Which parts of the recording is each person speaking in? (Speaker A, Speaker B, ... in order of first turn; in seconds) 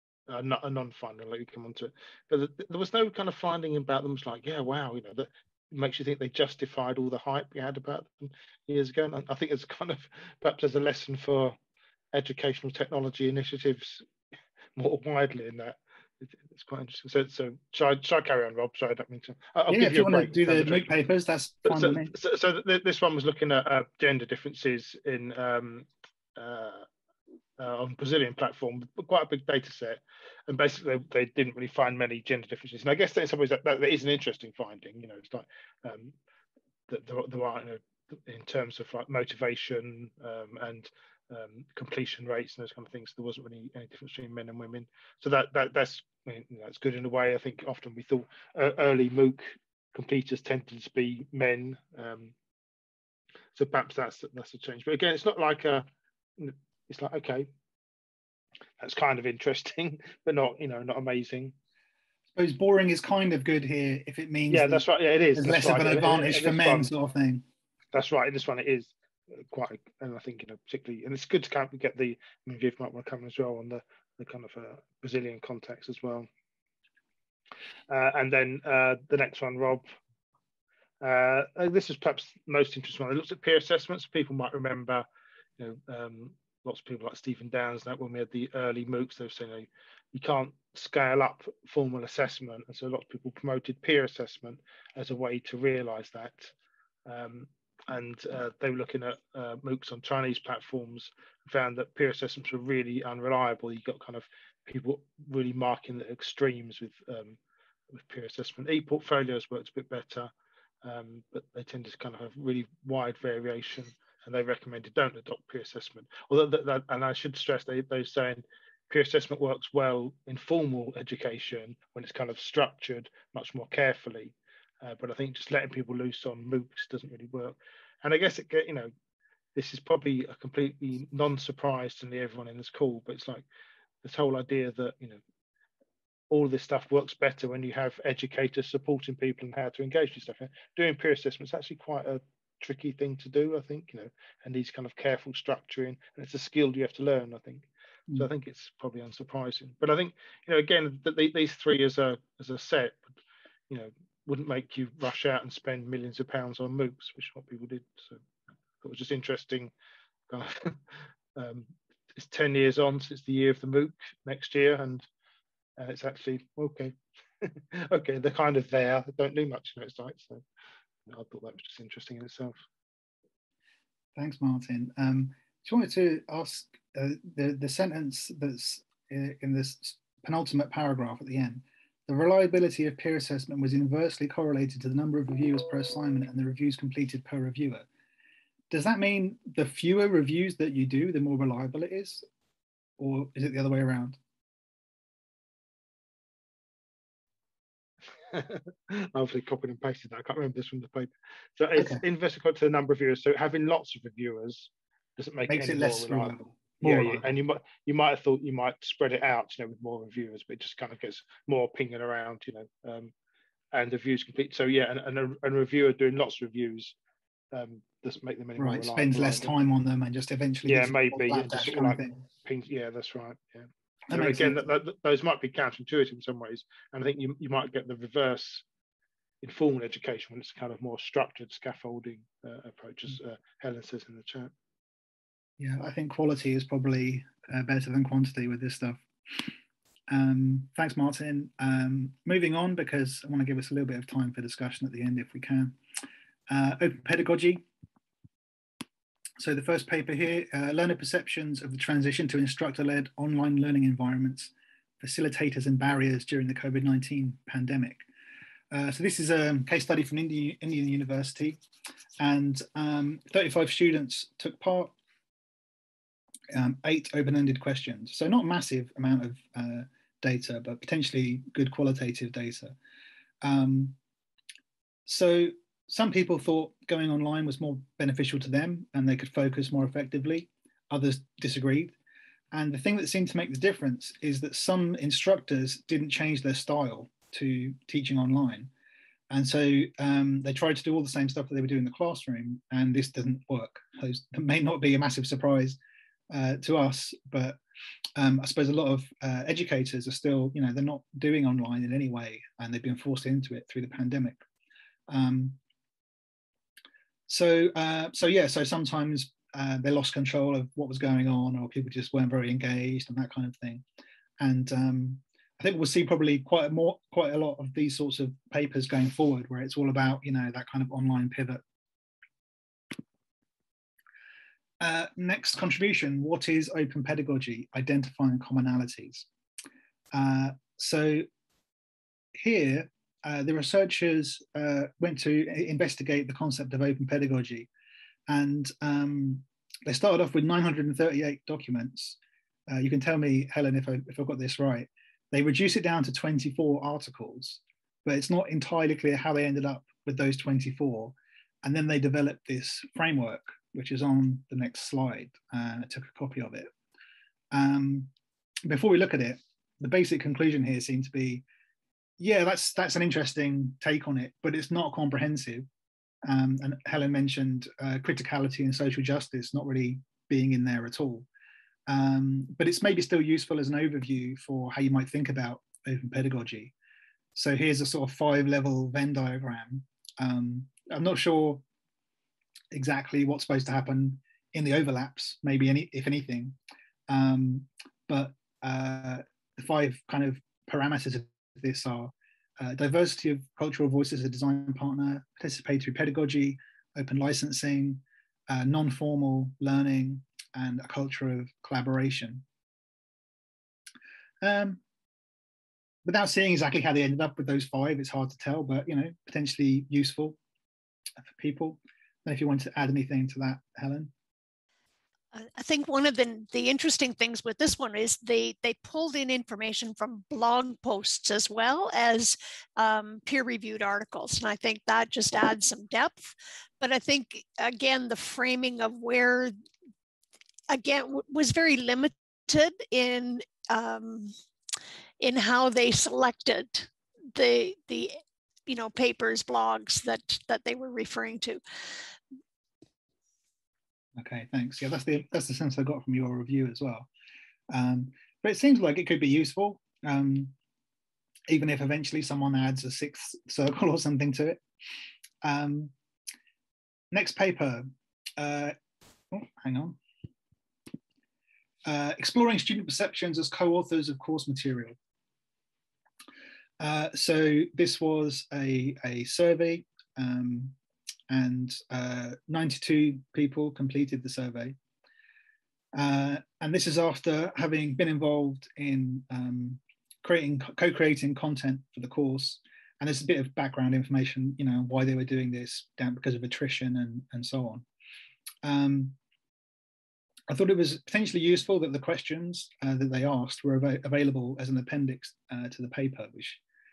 Speaker A: 0.3-11.6, 12.1-14.1, 14.8-20.9, 21.6-26.9, 27.6-36.1, 36.9-52.3, 53.5-55.8, 56.4-57.5, 58.8-61.5, 64.5-66.9, 67.9-76.3, 77.9-79.8, 81.0-85.0, 85.6-96.5, 97.0-107.4, 107.9-110.3, 110.8-128.9, 129.6-133.4, 134.0-135.2, 136.3-153.0, 153.7-158.2, 158.8-159.7, 160.3-160.8, 161.3-165.1, 165.8-170.4, 171.1-172.6, 198.2-213.1, 213.7-216.9, 217.5-219.5, 220.7-228.6, 229.4-234.5
Speaker B: 19.7-22.1, 62.3-64.8, 65.3-67.4, 174.2-187.8, 188.7-192.2, 193.0-194.2, 201.8-202.0, 205.5-207.2, 218.6-222.2, 224.1-224.6, 235.6-239.5, 240.1-245.8, 246.5-247.6, 249.4-258.0, 258.7-261.6, 262.2-264.9, 266.5-272.8, 273.4-274.0, 275.1-281.9, 282.5-288.7, 289.3-295.8, 296.3-297.6, 298.1-304.4, 305.1-305.6, 307.3-313.8, 314.4-321.6, 324.8-329.3, 330.1-331.2, 332.3-337.7, 338.3-342.2, 342.7-356.7, 357.5-358.1, 358.6-361.4, 362.2-365.6, 366.2-371.3, 371.9-376.7, 377.3-381.6, 382.7-386.6, 387.1-402.4, 404.4-404.8, 406.0-410.4, 411.3-414.1, 444.2-447.1, 447.7-450.5, 451.5-454.6, 455.4-455.9, 457.1-458.8, 459.3-460.0, 461.9-464.9, 466.8-470.8, 471.3-474.8, 475.9-487.8, 488.6-489.1, 490.5-496.6
Speaker C: 415.3-429.5, 430.7-434.3, 435.2-441.6